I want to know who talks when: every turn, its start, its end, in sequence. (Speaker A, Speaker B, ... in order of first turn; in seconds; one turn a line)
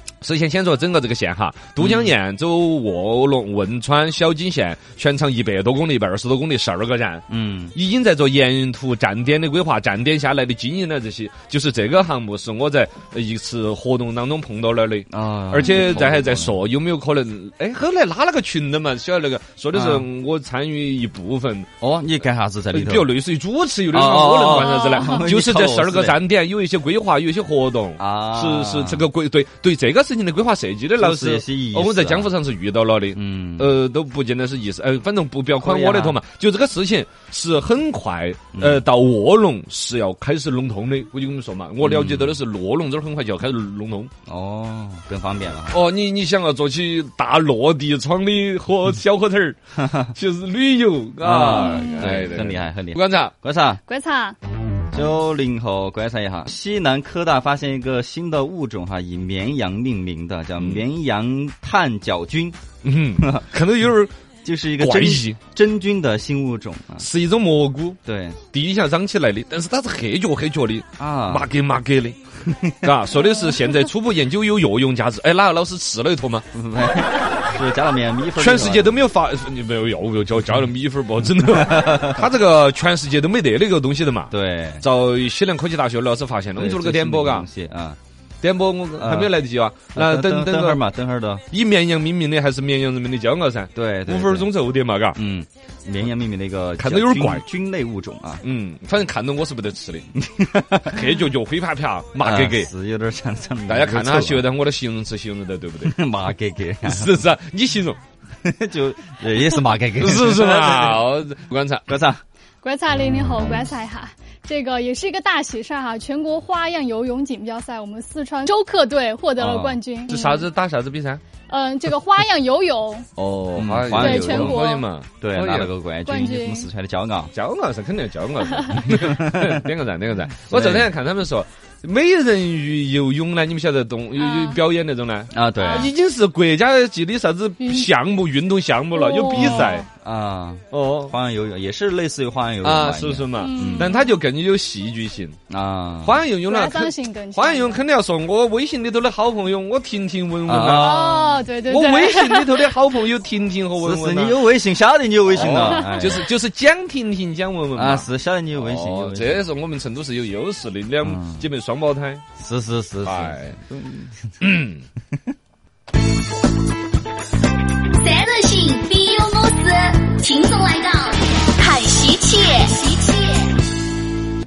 Speaker A: 0.2-21.7
Speaker B: 1.8-2.1
Speaker B: 7.3-7.7
Speaker B: 15.1-16.6
Speaker C: 15.6-16.0
Speaker B: 19.7-20.1
Speaker B: 21.8-23.1
Speaker A: 22.7-44.1
Speaker B: 23.9-26.2
Speaker C: 24.5-25.3
Speaker B: 28.0-29.1
Speaker B: 31.0-32.3
Speaker B: 33.1-33.7
Speaker B: 35.6-36.2
Speaker B: 38.5-38.8
Speaker B: 41.8-42.4
Speaker B: 44.3-45.8
Speaker A: 45.7-53.3
Speaker B: 51.2-53.8
Speaker C: 51.5-52.2
Speaker C: 53.9-54.4
Speaker B: 54.9-62.6
Speaker A: 60.5-60.9
Speaker A: 62.8-64.1
Speaker B: 64.4-67.1
Speaker A: 64.8-65.4
Speaker A: 67.0-68.0
Speaker B: 68.0-68.4
Speaker A: 68.5-72.2
Speaker B: 71.0-71.5
Speaker A: 72.8-76.5
Speaker B: 76.5-79.0
Speaker A: 78.3-87.5
Speaker B: 81.6-82.2
Speaker B: 84.3-84.8
Speaker B: 86.5-88.0
Speaker A: 88.4-90.8
Speaker B: 89.0-89.3
Speaker B: 89.9-91.4
Speaker A: 91.5-95.2
Speaker B: 93.7-94.5
Speaker B: 95.1-98.4
Speaker A: 96.8-97.4
Speaker A: 98.4-100.1
Speaker B: 100.2-101.1
Speaker A: 100.8-102.7
Speaker B: 102.2-104.5
Speaker A: 103.7-106.0
Speaker B: 105.8-107.2
Speaker A: 106.8-108.0
Speaker B: 108.4-111.0
Speaker A: 110.0-111.9
Speaker B: 111.9-112.2
Speaker C: 112.6-120.5
Speaker B: 119.4-119.8
Speaker A: 120.1-121.2
Speaker C: 121.5-123.1
Speaker A: 123.2-125.7
Speaker B: 123.5-124.6
Speaker C: 123.9-124.8
Speaker B: 125.2-127.3
Speaker C: 126.0-126.7
Speaker A: 127.3-139.9
Speaker B: 128.9-129.6
Speaker B: 130.5-130.9
Speaker C: 134.2-134.6
Speaker B: 135.3-135.9
Speaker C: 137.6-137.9
Speaker C: 138.9-139.9
Speaker B: 139.4-143.9
Speaker A: 140.7-141.1
Speaker A: 142.6-145.4
Speaker C: 143.4-144.2
Speaker B: 145.5-146.2
Speaker A: 146.0-154.4
Speaker C: 146.5-147.8
Speaker B: 150.4-151.3
Speaker C: 150.7-152.6
Speaker B: 153.8-156.2
Speaker A: 155.3-162.2
Speaker C: 155.4-156.2
Speaker B: 157.7-159.4
Speaker B: 161.0-161.4
Speaker B: 162.4-164.3
Speaker A: 163.0-163.6
Speaker A: 164.4-164.8
Speaker D: 168.0-173.5